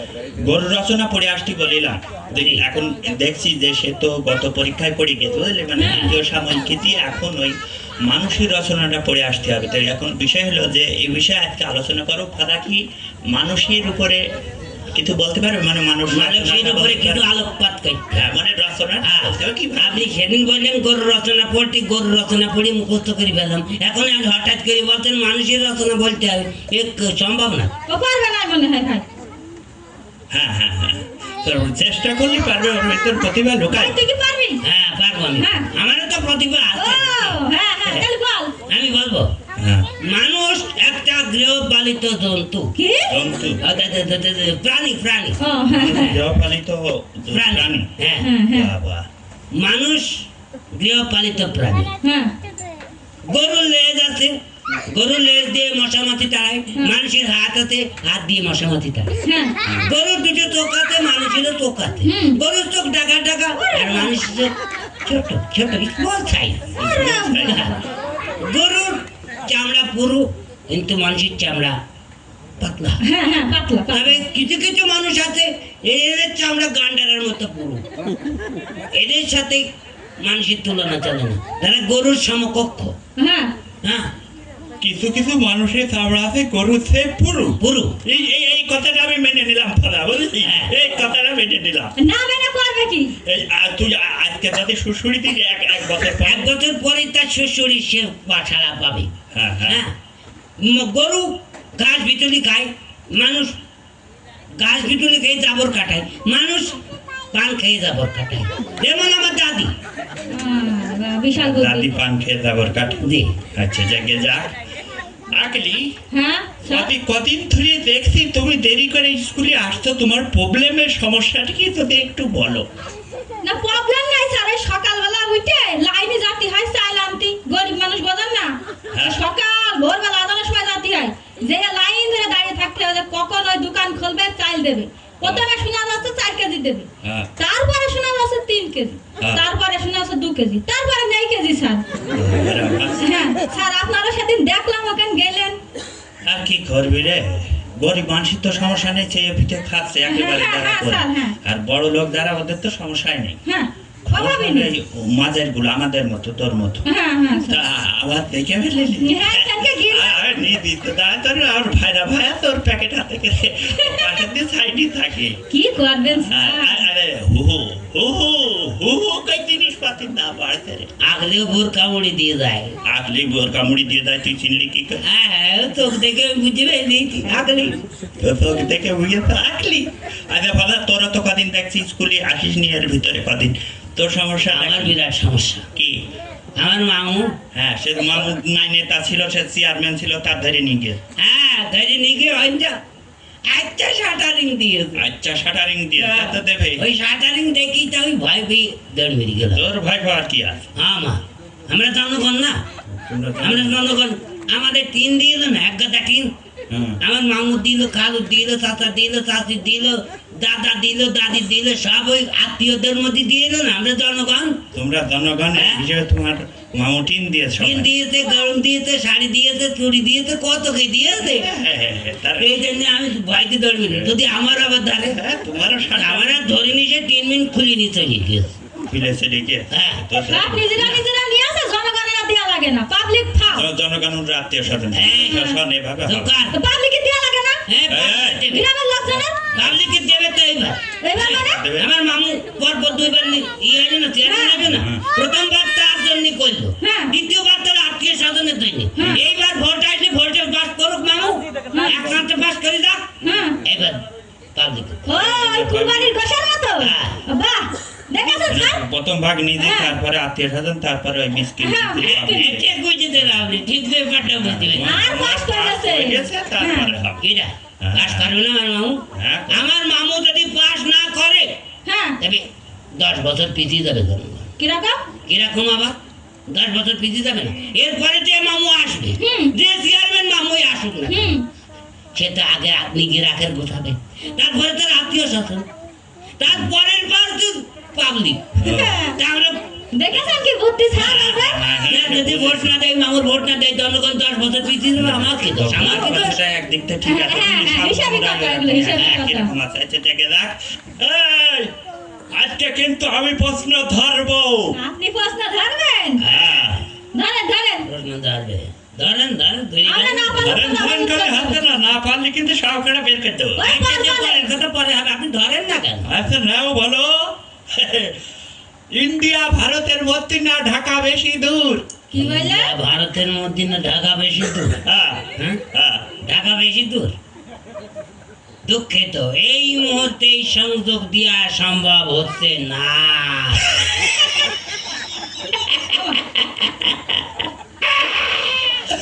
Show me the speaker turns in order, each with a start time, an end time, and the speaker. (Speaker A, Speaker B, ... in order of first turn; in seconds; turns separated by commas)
Speaker A: 0.4-12.8, Speaker B: 2.4-2.6, Speaker B: 5.8-6.2, Speaker A: 13.3-14.2, Speaker A: 14.9-17.3, Speaker B: 16.1-18.2, Speaker A: 18.1-20.1, Speaker B: 19.0-27.7, Speaker C: 27.9-29.1, Speaker A: 30.3-34.0, Speaker C: 33.7-34.6, Speaker B: 34.6-38.1, Speaker C: 35.4-35.7, Speaker C: 36.8-38.5, Speaker B: 38.7-39.3, Speaker A: 39.6-39.9, Speaker B: 40.0-42.7, Speaker C: 42.8-43.3, Speaker A: 43.1-43.6, Speaker B: 43.6-45.5, Speaker C: 45.4-46.3, Speaker A: 45.7-47.9, Speaker B: 47.3-48.5, Speaker C: 48.2-48.7, Speaker A: 48.5-49.1, Speaker B: 49.5-51.9, Speaker C: 52.0-52.3, Speaker B: 53.3-54.4, Speaker B: 54.9-59.1, Speaker C: 59.2-59.6, Speaker B: 59.8-64.5, Speaker C: 62.0-62.4, Speaker C: 63.6-64.1, Speaker B: 65.0-66.8, Speaker A: 66.8-67.6, Speaker C: 66.8-67.8, Speaker B: 67.4-67.8, Speaker B: 68.4-71.8, Speaker B: 72.6-73.0, Speaker C: 73.0-74.2, Speaker B: 73.9-77.8, Speaker B: 78.9-79.7, Speaker B: 80.2-83.0, Speaker C: 83.2-83.5, Speaker B: 83.8-84.1, Speaker A: 84.8-91.9, Speaker B: 87.6-88.0, Speaker B: 90.4-90.8, Speaker C: 92.0-93.2, Speaker A: 93.2-96.5, Speaker B: 96.2-99.1, Speaker A: 99.3-99.9, Speaker B: 99.7-99.9, Speaker B: 100.6-103.6, Speaker B: 104.6-106.8, Speaker B: 107.3-109.7, Speaker C: 110.3-111.9, Speaker A: 111.4-114.5, Speaker B: 113.0-113.4, Speaker A: 115.3-115.8, Speaker C: 116.1-116.9, Speaker A: 116.7-122.7, Speaker C: 123.4-141.8, Speaker A: 128.9-129.2, Speaker A: 135.2-135.5, Speaker A: 137.0-137.3, Speaker A: 142.2-143.0, Speaker C: 143.0-145.6, Speaker A: 146.2-153.4, Speaker C: 150.1-151.4, Speaker C: 153.5-154.7, Speaker A: 154.2-156.8, Speaker C: 156.9-157.6, Speaker A: 157.5-165.4, Speaker C: 159.0-160.2, Speaker C: 163.7-164.3, Speaker C: 165.5-166.9, Speaker A: 166.2-170.9, Speaker B: 171.0-172.8, Speaker A: 172.8-175.0, Speaker B: 175.0-177.8, Speaker A: 178.2-185.0, Speaker B: 184.5-185.7, Speaker B: 186.6-187.3, Speaker A: 187.5-191.0, Speaker B: 191.2-192.8, Speaker B: 193.5-195.0, Speaker A: 195.0-196.8, Speaker B: 196.0-199.6, Speaker A: 199.5-200.7, Speaker B: 200.8-202.6, Speaker A: 202.9-203.8, Speaker B: 203.4-206.3, Speaker A: 206.7-207.0, Speaker B: 207.0-214.6, Speaker A: 214.7-217.9, Speaker B: 215.5-215.8, Speaker B: 217.6-221.5, Speaker A: 221.3-222.6, Speaker B: 222.4-225.2, Speaker A: 223.9-224.2, Speaker A: 225.0-226.8, Speaker B: 226.0-228.5, Speaker A: 228.9-231.0, Speaker B: 229.7-230.1, Speaker C: 230.1-233.7, Speaker A: 233.5-236.3, Speaker B: 234.9-235.4, Speaker C: 235.1-235.6, Speaker B: 236.1-236.6, Speaker C: 236.5-237.6, Speaker B: 237.7-238.7, Speaker A: 237.9-238.5, Speaker C: 238.5-239.5, Speaker A: 239.5-239.9, Speaker B: 239.5-253.1, Speaker C: 241.0-241.7, Speaker A: 241.3-241.9, Speaker C: 244.2-244.8, Speaker A: 244.7-245.1, Speaker C: 246.8-247.1, Speaker C: 249.0-249.2, Speaker C: 251.7-252.1, Speaker C: 253.2-253.6, Speaker B: 253.6-254.0, Speaker B: 254.6-255.2, Speaker C: 255.1-258.8, Speaker A: 255.2-256.1, Speaker B: 256.8-257.2, Speaker A: 258.5-262.7, Speaker C: 259.6-260.0, Speaker C: 261.6-262.5, Speaker B: 262.0-265.0, Speaker A: 263.2-263.5, Speaker A: 264.2-267.2, Speaker C: 264.8-267.0, Speaker B: 267.2-271.6, Speaker A: 267.8-268.3, Speaker A: 269.1-269.7, Speaker C: 271.9-272.2, Speaker B: 272.2-274.5, Speaker C: 274.6-275.1, Speaker B: 275.3-281.4, Speaker C: 279.2-279.5, Speaker C: 281.1-281.4, Speaker B: 282.1-285.7, Speaker B: 286.4-289.6, Speaker A: 286.4-286.7, Speaker A: 288.6-289.1, Speaker C: 288.6-289.2, Speaker C: 289.9-291.9, Speaker A: 291.0-292.8, Speaker B: 291.9-296.2, Speaker A: 294.9-301.7, Speaker C: 295.8-296.4, Speaker C: 297.0-299.5, Speaker B: 298.7-299.3, Speaker A: 302.3-304.8, Speaker C: 304.7-306.2, Speaker B: 306.2-306.8, Speaker A: 306.2-306.8, Speaker C: 307.1-307.9, Speaker B: 307.8-310.6, Speaker C: 309.9-311.8, Speaker A: 310.4-313.7, Speaker C: 313.6-314.5, Speaker B: 313.6-316.1, Speaker A: 316.1-318.2, Speaker A: 318.9-321.9, Speaker C: 322.1-322.8, Speaker B: 322.1-324.8, Speaker A: 324.8-326.1, Speaker B: 325.4-325.6, Speaker B: 326.2-327.2, Speaker B: 328.6-334.2, Speaker B: 335.6-337.2